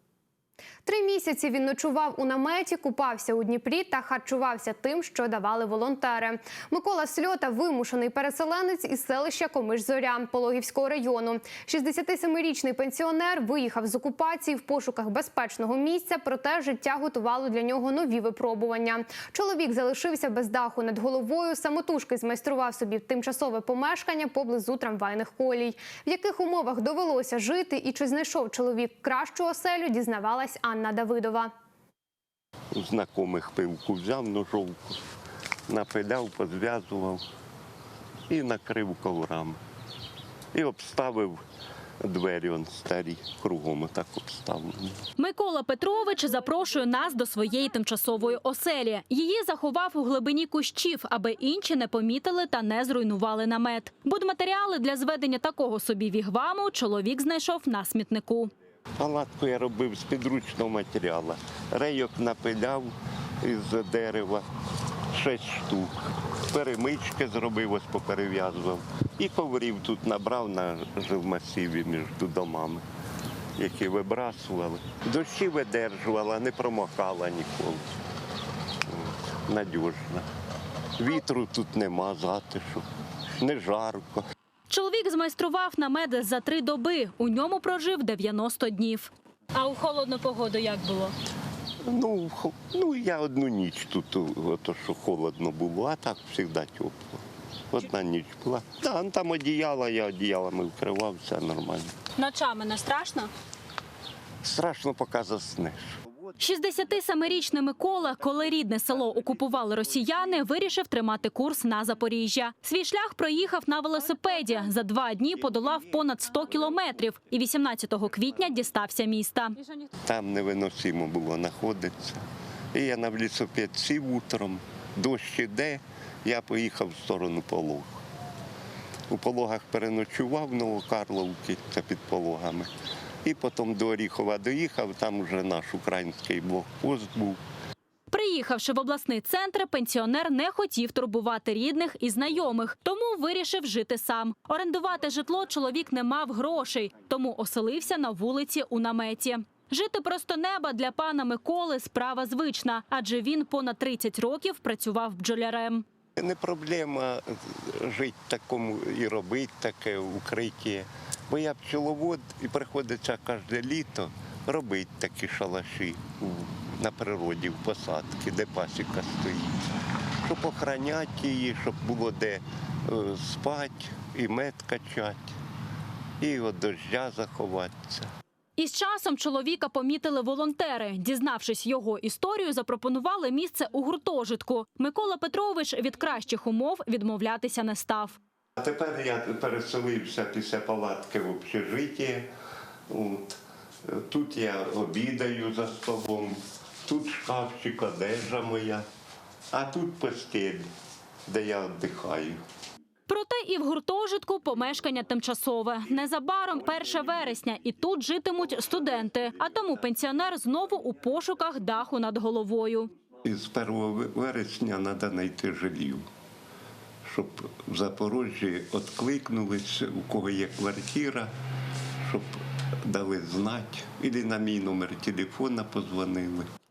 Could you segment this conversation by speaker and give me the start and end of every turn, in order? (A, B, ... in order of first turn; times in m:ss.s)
0:00.8-0:31.5 A
0:32.7-0:35.0 B
0:35.7-0:37.2 B
0:38.3-0:39.6 B
0:40.5-0:41.4 B
0:42.0-0:45.0 B
0:45.2-0:58.5 C
0:59.0-1:04.5 B
1:05.1-1:05.9 B
1:06.5-1:12.8 B
1:13.6-1:17.8 B
1:18.9-1:20.3 B
1:21.0-1:22.9 B
1:23.4-1:24.2 B
1:24.7-1:31.1 C
1:31.8-1:41.9 B
1:42.2-1:43.3 C
1:44.4-1:46.0 B
1:46.4-1:59.6 C
2:00.0-2:08.0 B
2:09.1-2:12.7 B
2:13.2-2:17.4 B
2:18.1-2:35.8 C
2:36.2-2:49.6 B
2:50.2-2:55.4 B
2:56.2-2:58.1 B
2:58.6-3:08.2 C
3:08.6-3:12.3 B
3:12.9-3:18.9 B
3:19.5-3:20.7 B
3:21.3-3:22.4 B
3:23.1-3:32.9 C
3:33.2-3:36.0 B
3:37.0-3:41.3 B
3:42.0-3:46.5 B